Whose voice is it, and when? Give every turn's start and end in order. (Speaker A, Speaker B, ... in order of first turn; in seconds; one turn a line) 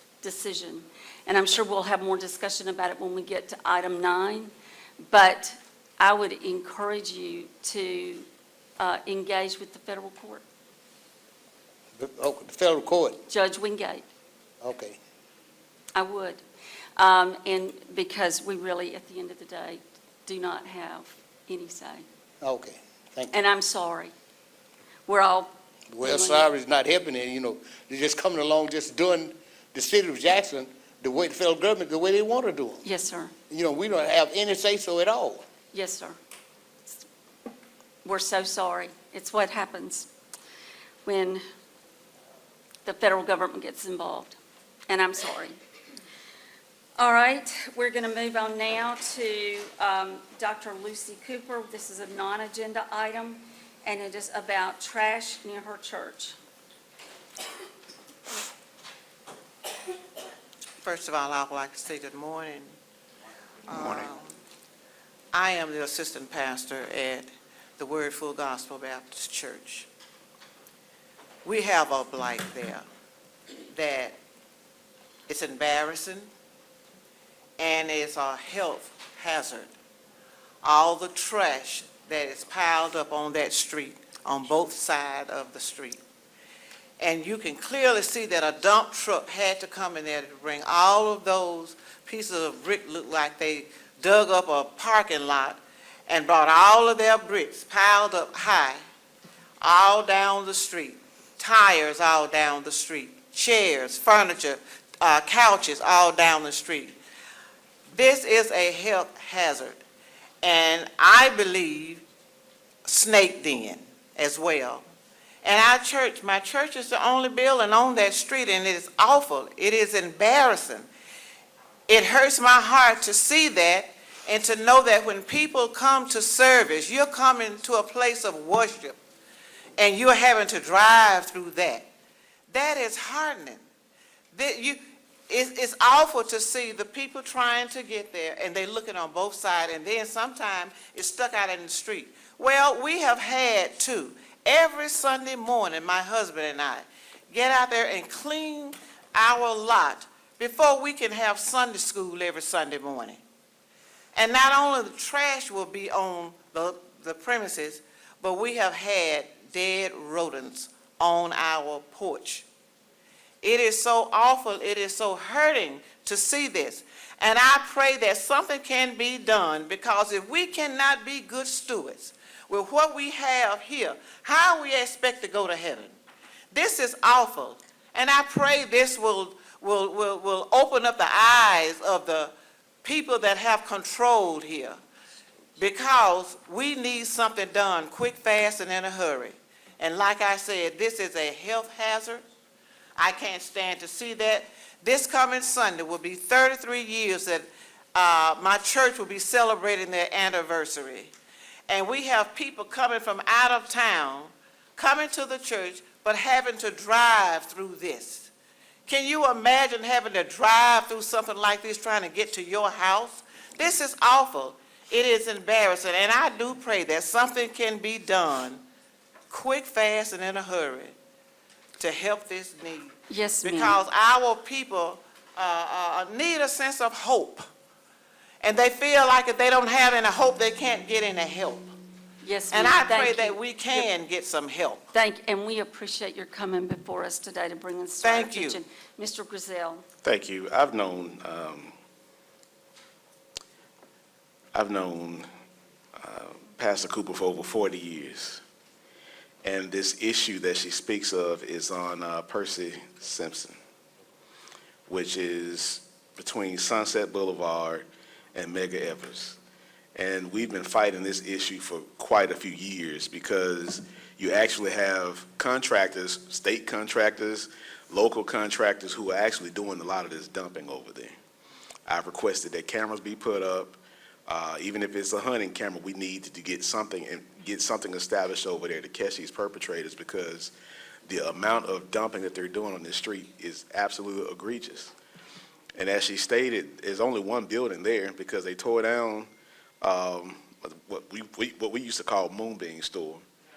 Speaker A: 0.2-4.5
Speaker A: 5.0-8.3
Speaker A: 8.8-10.4
Speaker B: 12.0-13.2
Speaker A: 13.3-14.1
Speaker B: 14.6-15.0
Speaker A: 15.9-16.4
Speaker A: 17.0-22.1
Speaker B: 22.4-23.3
Speaker A: 23.3-24.1
Speaker A: 25.1-25.5
Speaker B: 25.9-32.8
Speaker A: 26.0-26.5
Speaker A: 32.8-33.3
Speaker B: 33.5-35.4
Speaker A: 35.7-36.2
Speaker A: 38.0-40.1
Speaker A: 41.0-41.4
Speaker A: 42.9-44.4
Speaker A: 44.9-45.6
Speaker A: 47.0-56.4
Speaker C: 60.8-62.7
Speaker C: 63.7-64.3
Speaker C: 65.3-69.9
Speaker C: 71.5-72.8
Speaker C: 73.7-74.2
Speaker C: 75.3-76.3
Speaker C: 77.6-79.7
Speaker C: 80.6-86.0
Speaker C: 87.0-98.8
Speaker C: 99.6-107.0
Speaker C: 107.9-109.8
Speaker C: 110.4-112.0
Speaker C: 112.9-114.8
Speaker C: 115.4-120.9
Speaker C: 121.9-129.0
Speaker C: 129.8-131.8
Speaker C: 132.5-133.6
Speaker C: 134.3-153.2
Speaker C: 154.2-162.4
Speaker C: 163.4-176.0
Speaker C: 176.5-182.3
Speaker C: 182.8-184.8
Speaker C: 185.6-192.2
Speaker C: 193.0-201.1
Speaker C: 201.7-208.3
Speaker C: 208.9-218.6
Speaker C: 219.3-220.9
Speaker C: 221.8-227.4
Speaker A: 223.1-223.8
Speaker C: 228.4-231.7
Speaker A: 232.2-233.9
Speaker C: 232.5-234.9
Speaker A: 234.9-239.8
Speaker C: 238.0-238.6
Speaker D: 240.0-241.7
Speaker D: 244.5-245.3
Speaker D: 246.0-248.4
Speaker D: 249.4-253.6
Speaker D: 254.9-259.4
Speaker D: 259.9-271.1
Speaker D: 271.9-280.5
Speaker D: 281.1-284.9
Speaker D: 285.8-289.3
Speaker D: 289.8-293.2